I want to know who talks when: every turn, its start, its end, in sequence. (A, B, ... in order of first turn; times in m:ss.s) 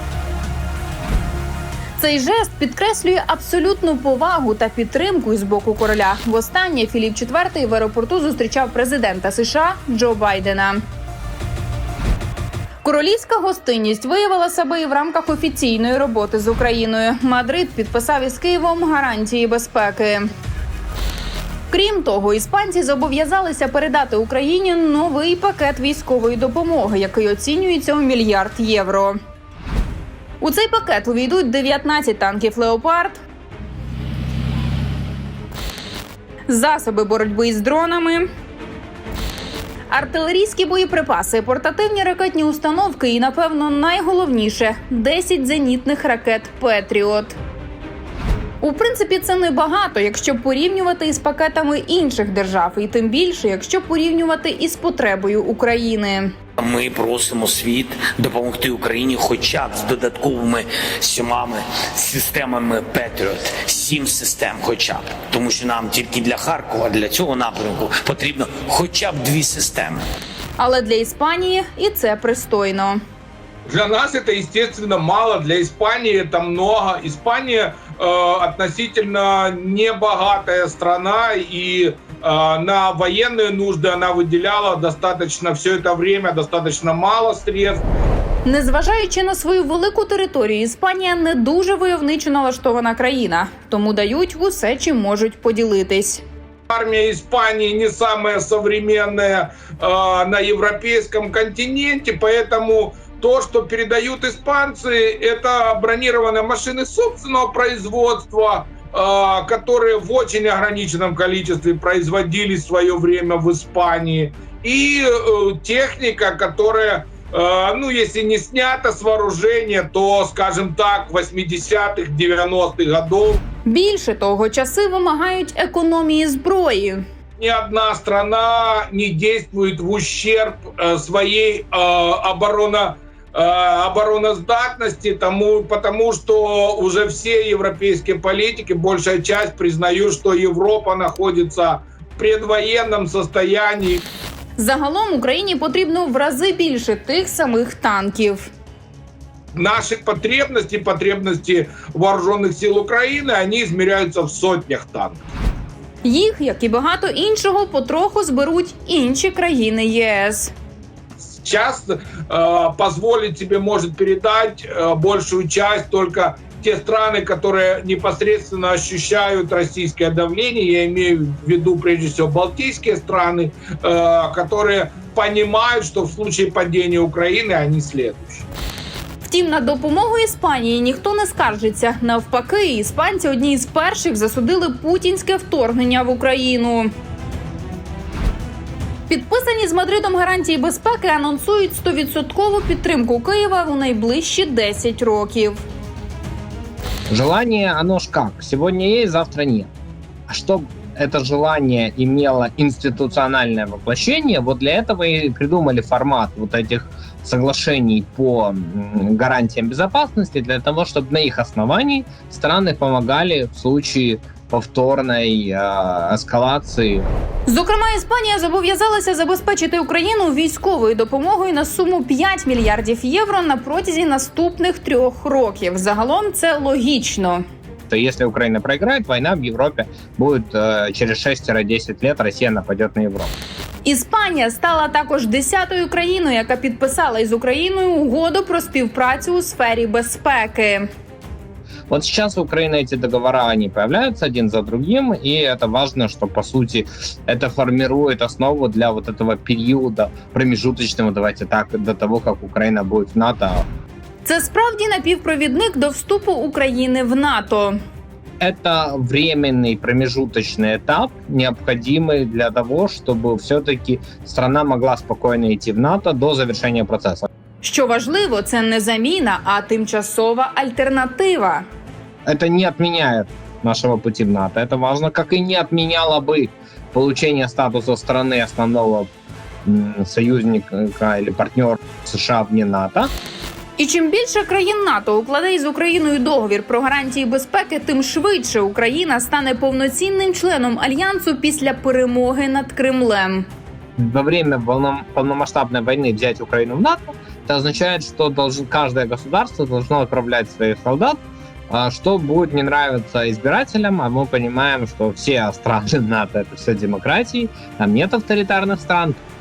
0:02.0-0:10.8 A
0:12.8-0:20.3 A
0:21.7-0:29.2 A
0:30.4-0:33.2 A
0:36.5-0:38.3 A
0:39.9-0:47.4 A
0:48.6-0:56.3 A
0:56.6-1:10.0 B
1:10.6-1:13.0 A
1:13.7-1:27.8 C
1:28.5-1:36.2 A
1:36.7-2:03.4 C
2:03.7-2:07.0 A
2:07.4-2:24.1 C
2:24.6-2:28.5 A
2:29.6-2:35.3 C
2:36.0-2:40.5 A
2:41.2-2:58.5 C
2:59.3-3:06.9 A
3:09.1-3:15.6 A
3:17.1-3:19.7 D
3:20.3-3:37.1 D
3:37.5-3:47.4 A
3:47.9-3:53.3 D
3:53.8-4:00.9 A
4:01.9-4:13.7 D
4:14.2-4:17.8 A
4:18.4-4:27.3 D
4:27.6-4:31.6 A
4:32.3-4:39.1 D
4:39.6-4:43.1 D
4:43.8-4:53.5 A
4:54.0-5:01.2 D
5:01.7-5:09.2 D